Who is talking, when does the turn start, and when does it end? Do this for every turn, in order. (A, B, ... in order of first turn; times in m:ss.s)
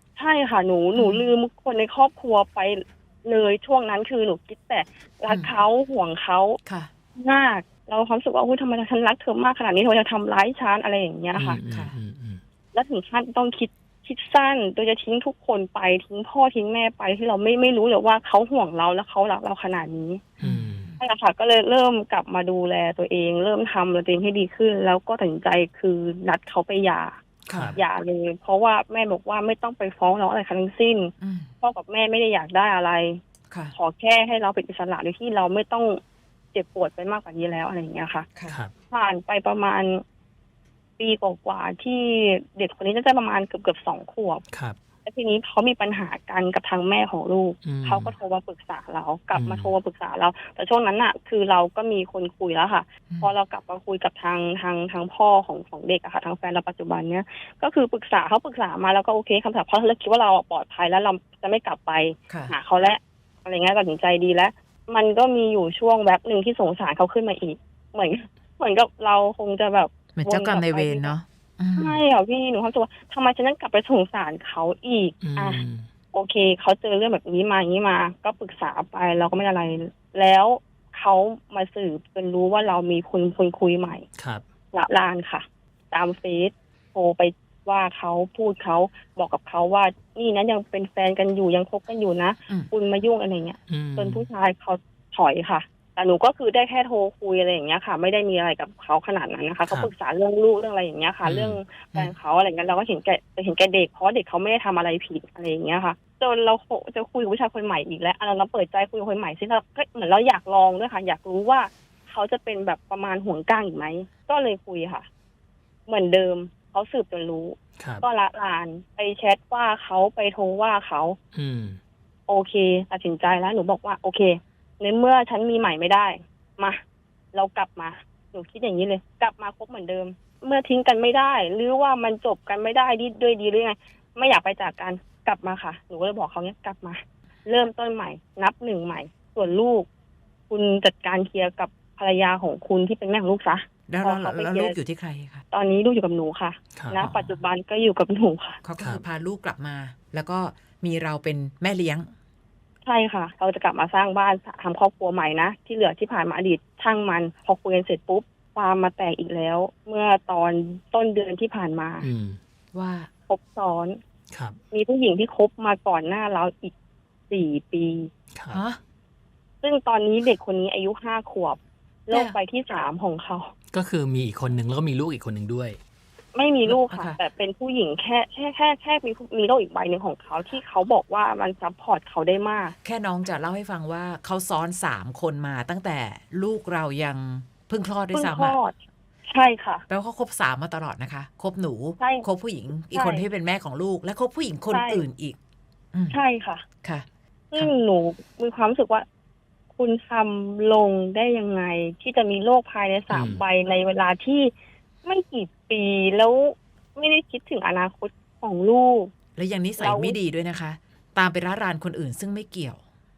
0:00.2-0:06.6 A
0:00.9-0:01.3 B
0:06.6-0:06.9 B
0:07.2-0:11.6 A
0:11.3-0:12.4 C
0:11.7-0:11.9 B
0:12.7-0:20.2 A
0:20.4-0:20.9 C
0:20.4-0:21.0 B
0:21.0-0:27.2 A
0:27.5-0:27.8 B
0:27.5-0:27.8 C
0:27.7-0:33.2 A
0:31.2-0:31.5 B
0:33.7-0:36.0 A
0:36.5-0:38.3 A
0:38.9-0:40.0 A
0:41.0-0:44.4 A
0:44.5-0:44.8 C
0:45.0-1:11.1 A
0:47.6-0:48.2 C
0:49.3-0:49.7 C
1:02.3-1:02.5 B
1:10.2-1:12.0 B
1:11.8-1:15.6 A
1:15.2-1:15.9 C
1:16.1-1:24.1 A
1:24.2-1:24.4 C
1:24.7-1:55.1 A
1:33.7-1:34.3 C
1:41.2-1:41.6 C
1:55.9-2:01.2 A
1:57.8-1:58.1 C
2:01.3-2:01.8 C
2:02.3-2:06.8 A
2:07.3-2:19.9 A
2:20.5-2:24.8 A
2:23.9-2:25.4 B
2:25.5-2:28.6 A
2:26.7-2:27.0 C
2:26.9-2:27.4 B
2:28.6-2:32.1 B
2:32.8-2:42.1 A
2:42.0-2:42.4 C
2:42.7-2:43.1 B
2:43.3-2:44.0 A
2:44.3-2:44.6 C
2:44.7-2:46.7 A
2:47.3-2:48.1 A
2:48.3-2:48.6 C
2:48.5-2:48.8 B
2:49.6-2:53.5 A
2:52.1-2:52.4 B
2:53.7-2:55.8 C
2:56.3-3:02.7 A
2:56.6-2:57.2 B
3:02.8-3:08.6 B
3:08.1-3:08.7 A
3:09.3-3:09.8 A
3:09.9-3:15.4 B
3:12.0-3:12.3 A
3:12.9-3:13.3 A
3:14.7-3:15.0 A
3:15.9-3:16.2 B
3:16.1-3:16.6 A
3:16.8-3:17.7 B
3:17.5-3:19.0 A
3:19.7-3:24.5 A
3:23.1-3:23.4 C
3:25.0-3:29.1 A
3:29.3-3:32.8 B
3:29.8-3:30.2 A